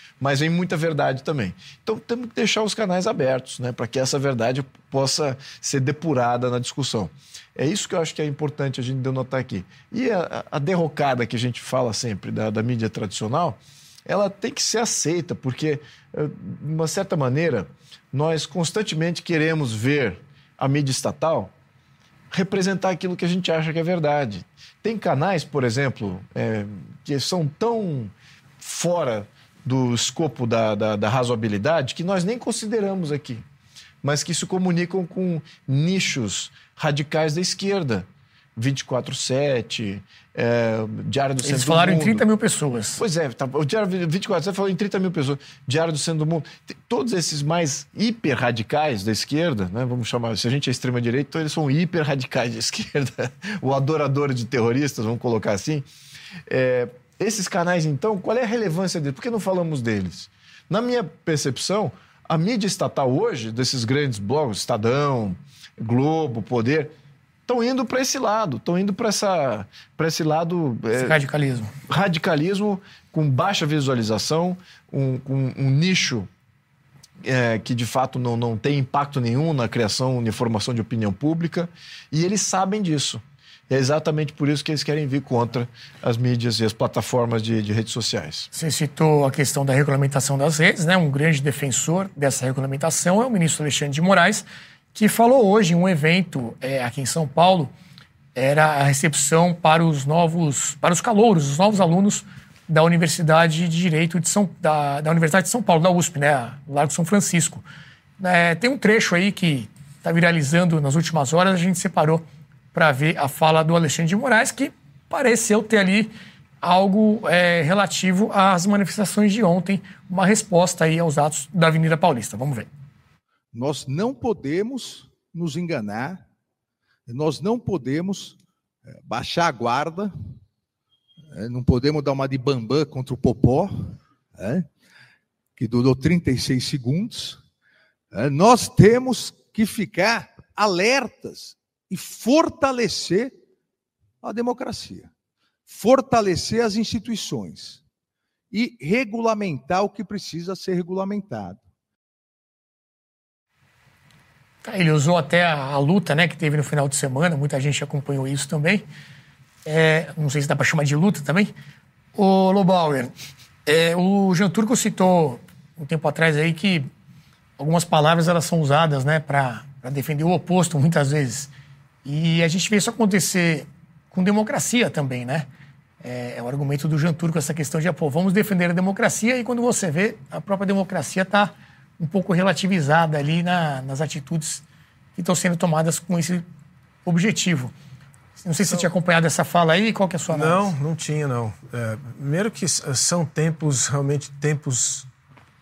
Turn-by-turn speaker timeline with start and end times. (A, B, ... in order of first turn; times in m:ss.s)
0:00.2-0:21.5 A
0:22.3-0:33.4 A
0:34.0-0:42.2 A
0:41.4-0:43.0 B
0:43.0-0:55.9 A
0:56.5-1:06.9 A
1:07.4-1:11.2 A
1:10.9-1:11.7 B
1:11.9-1:16.3 A
1:17.2-1:28.5 A
1:28.5-1:37.7 B
1:38.4-1:47.6 B
1:48.2-2:02.7 B
2:03.5-2:06.2 C
2:07.1-2:08.4 C
2:08.9-2:10.1 C
2:11.3-2:14.7 C
2:15.6-2:17.4 C
2:18.1-2:23.4 C
2:24.2-2:25.1 C
2:25.7-2:27.8 C
2:28.5-2:31.6 C
2:34.6-2:38.9 B
2:39.6-2:41.5 B
2:42.2-2:43.1 B
2:43.6-2:46.9 B
2:47.6-2:51.5 B
2:52.0-2:55.5 B
2:56.0-3:04.6 B
3:05.2-3:06.4 B
3:07.0-3:07.7 B
3:08.4-3:10.7 B
3:10.3-3:15.1 D